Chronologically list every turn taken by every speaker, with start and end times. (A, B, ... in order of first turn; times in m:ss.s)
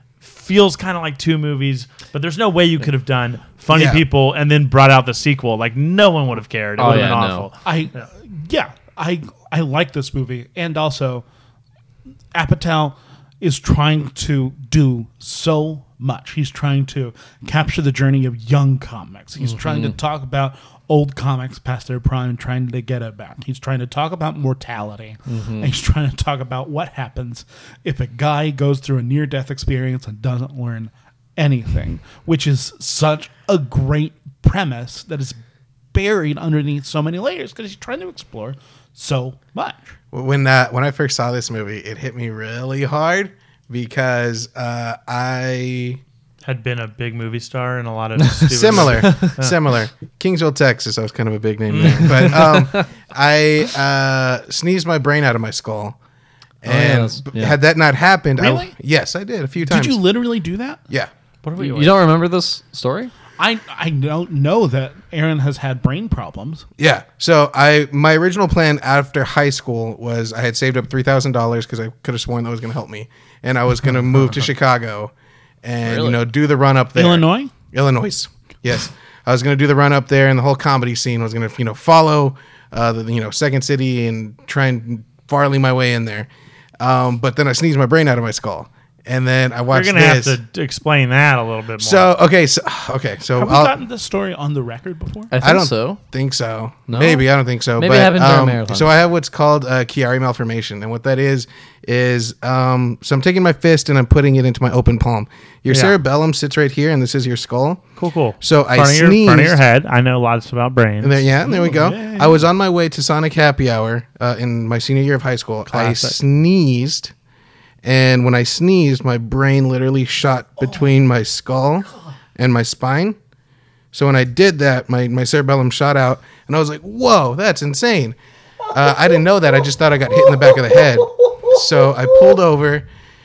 0:00.2-0:08.0 A
0:03.7-0:04.0 B
0:06.8-0:07.5 C
0:07.6-0:11.2 D
0:12.3-0:35.4 D
0:19.4-0:20.0 C
0:25.3-0:25.7 C
0:35.9-0:39.9 D
0:40.1-0:46.0 B
0:46.4-0:49.6 A
0:48.5-0:56.0 B
0:51.7-0:52.4 A
0:51.8-0:52.8 C
0:56.6-1:00.0 B
0:56.6-0:57.6 C
0:58.4-0:58.7 D
0:59.6-1:00.8 D
1:01.4-1:02.0 A
1:01.6-1:03.1 C
1:03.4-1:06.6 D
1:06.8-1:15.1 B
1:15.6-1:26.3 B
1:15.8-1:16.2 C
1:17.0-1:17.5 D
1:26.8-1:30.4 B
1:29.7-1:32.1 A
1:31.8-1:33.7 B
1:33.4-1:35.3 D
1:35.3-1:36.0 C
1:35.4-1:47.8 B
1:36.9-1:37.2 C
1:37.8-1:38.9 C
1:45.7-1:45.9 A
1:48.0-1:51.2 A
1:48.4-1:49.6 B
1:51.0-1:57.1 B
1:51.4-1:52.4 D
1:55.7-1:56.2 A
1:57.8-2:03.2 B
2:03.9-2:08.2 B
2:08.7-2:12.8 B